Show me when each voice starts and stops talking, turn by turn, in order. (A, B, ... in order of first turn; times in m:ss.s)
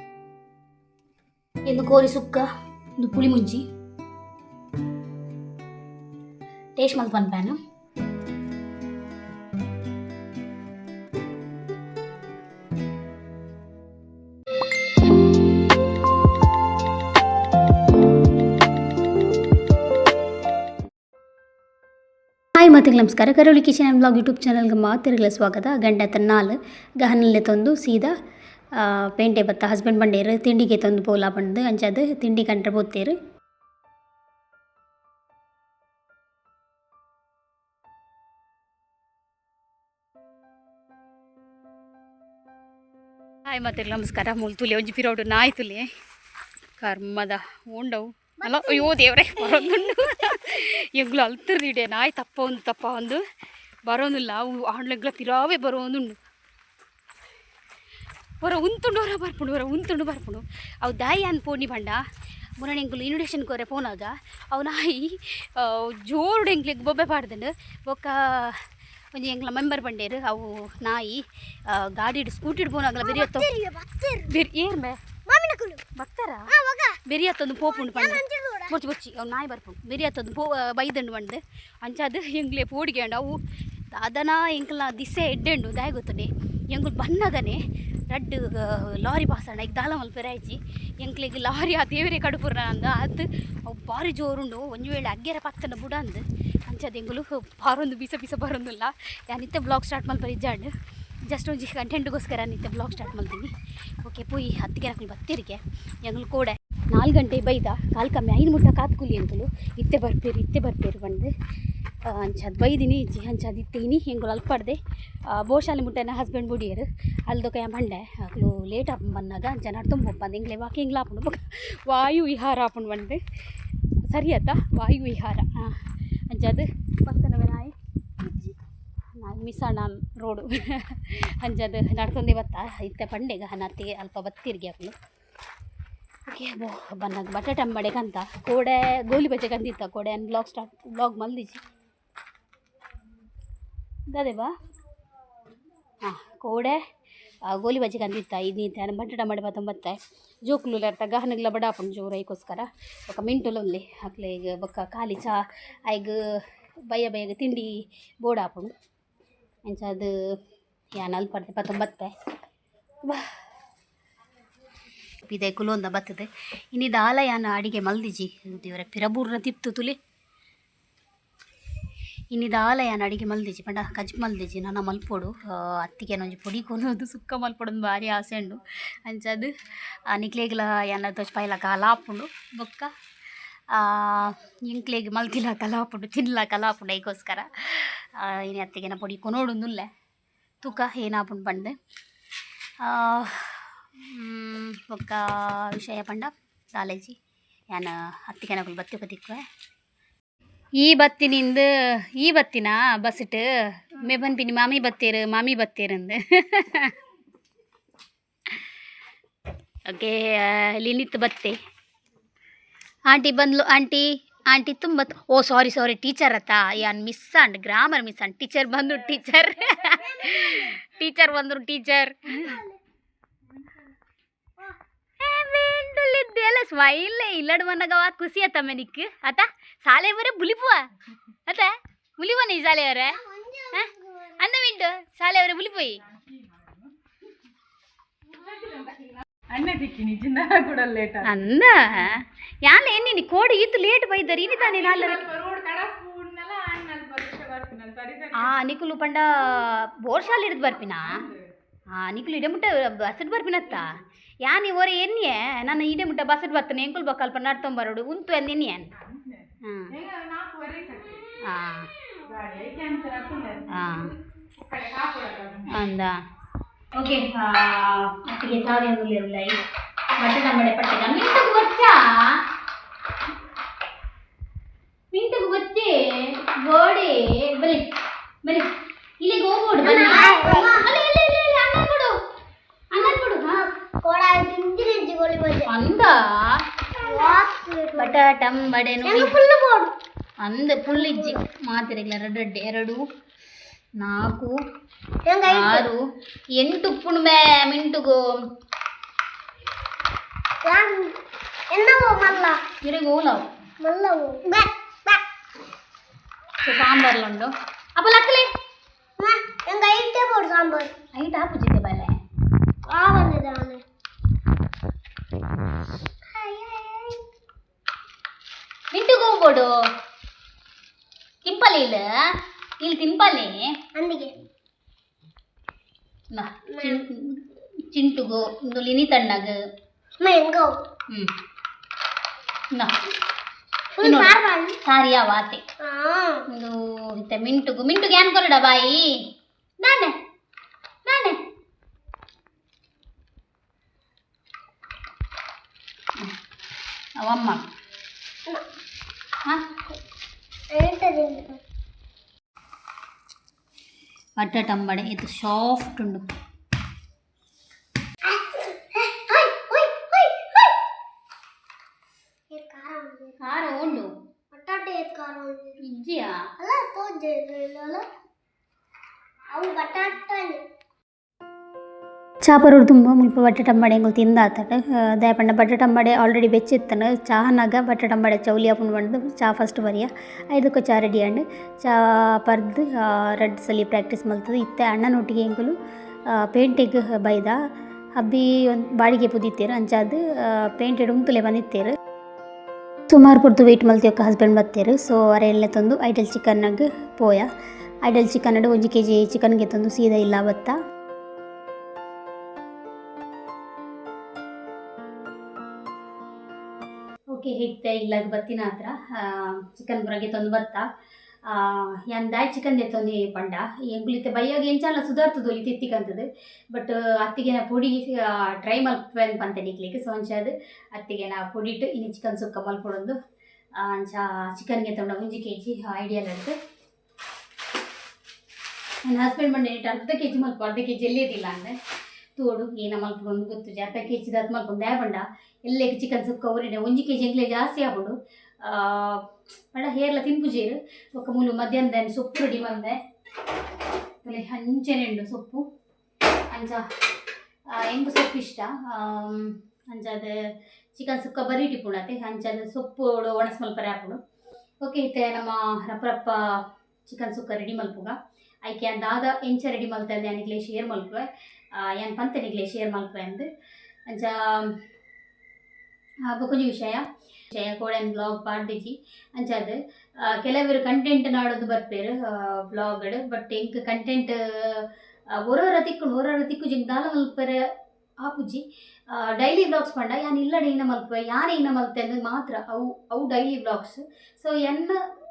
0:01.7-0:02.4 A
0:03.0-0:03.6 A
0:06.8-0:07.6 A
0:22.6-0:28.2 A
0:28.7-0:33.2 A
0:43.5-0:45.9 A
0:46.8-0:53.2 A
0:48.4-0:50.4 B
0:53.9-0:56.2 A
0:58.4-1:02.0 A
1:02.6-1:13.5 A
1:13.0-1:14.3 B
1:14.3-1:15.0 A
1:15.3-1:15.8 B
1:16.0-1:16.5 A
1:16.5-1:17.0 B
1:17.0-1:23.4 A
1:17.6-1:18.8 B
1:23.9-1:40.7 A
1:41.3-1:51.3 A
1:52.0-1:54.8 A
1:55.3-2:03.2 A
2:04.1-2:07.7 A
2:09.2-2:15.0 A
2:16.3-2:21.6 A
2:24.1-2:24.5 A
2:26.0-2:26.8 A
2:27.5-2:36.2 A
2:36.9-2:38.7 A
2:39.7-2:40.4 A
2:41.0-2:42.1 A
2:43.0-2:43.3 A
2:45.3-2:50.0 A
2:52.3-3:02.9 A
3:03.7-3:09.9 A
3:10.6-3:11.8 A
3:12.8-3:17.2 A
3:17.7-3:19.4 A
3:20.8-3:27.0 A
3:29.9-3:31.6 A
3:33.1-3:42.6 A
3:39.9-3:40.8 B
3:42.3-3:42.8 B
3:45.2-3:50.9 A
3:51.5-3:53.2 A
3:53.1-3:54.4 B
3:53.8-3:56.0 A
3:56.1-3:56.9 C
3:58.3-4:01.3 C
4:01.2-4:05.3 A
4:04.5-4:08.5 C
4:08.4-4:11.2 A
4:10.9-4:11.4 C
4:11.9-4:19.0 A
4:19.0-4:21.3 C
4:19.6-4:19.9 A
4:21.4-4:21.9 A
4:22.3-4:25.8 C
4:23.7-4:24.1 A
4:25.7-4:26.2 A
4:27.0-4:29.6 A
4:30.2-4:32.4 A
4:35.1-4:37.9 A
4:39.2-4:42.2 A
4:39.8-4:40.9 B
4:42.9-4:43.6 A
4:43.5-4:45.7 B
4:45.7-4:46.6 A
4:47.0-4:48.2 B
4:48.0-4:49.4 A
4:49.0-4:49.9 B
4:50.4-4:53.0 A
4:51.0-4:51.4 B
4:54.0-4:54.5 A
4:55.2-4:55.9 B
4:55.5-4:56.0 A
4:56.6-4:58.4 A
5:00.6-5:01.2 B
5:01.7-5:02.6 B
5:02.8-5:03.5 A
5:03.8-5:05.2 B
5:06.6-5:08.5 A
5:09.2-5:11.0 B
5:11.2-5:12.2 A
5:12.9-5:13.8 B
5:16.3-5:17.2 B
5:18.9-5:19.9 A
5:21.4-5:22.0 A
5:22.8-5:23.7 A
5:24.0-5:24.4 B
5:26.3-5:29.6 A
5:26.7-5:27.0 B
5:30.2-5:30.7 B
5:33.9-5:34.8 B
5:34.0-5:35.6 A
5:35.8-5:36.4 B
5:36.5-5:39.2 A
5:39.8-5:40.2 A
5:41.1-5:41.4 A
5:47.2-5:47.6 A
5:50.7-5:51.6 B
5:54.4-5:56.2 A
5:58.2-6:00.8 B
6:02.5-6:03.4 B
6:03.4-6:04.1 A
6:04.5-6:05.8 B
6:05.8-6:06.4 A
6:06.6-6:08.0 B
6:09.5-6:10.6 B
6:12.4-6:25.8 A
6:26.3-6:27.6 A
6:28.2-6:32.0 A
6:33.1-6:37.5 A
6:38.0-6:40.8 A
6:47.3-6:50.8 A
6:51.5-7:03.2 A
7:03.8-7:06.6 A
7:09.1-7:11.8 A
7:12.4-7:23.0 A
7:24.2-7:25.6 A
7:26.5-7:26.8 A
7:27.7-7:30.4 A
7:31.0-7:34.2 A
7:34.8-7:43.5 A
7:44.1-7:44.8 A
7:46.3-7:57.6 A
7:58.2-8:05.0 A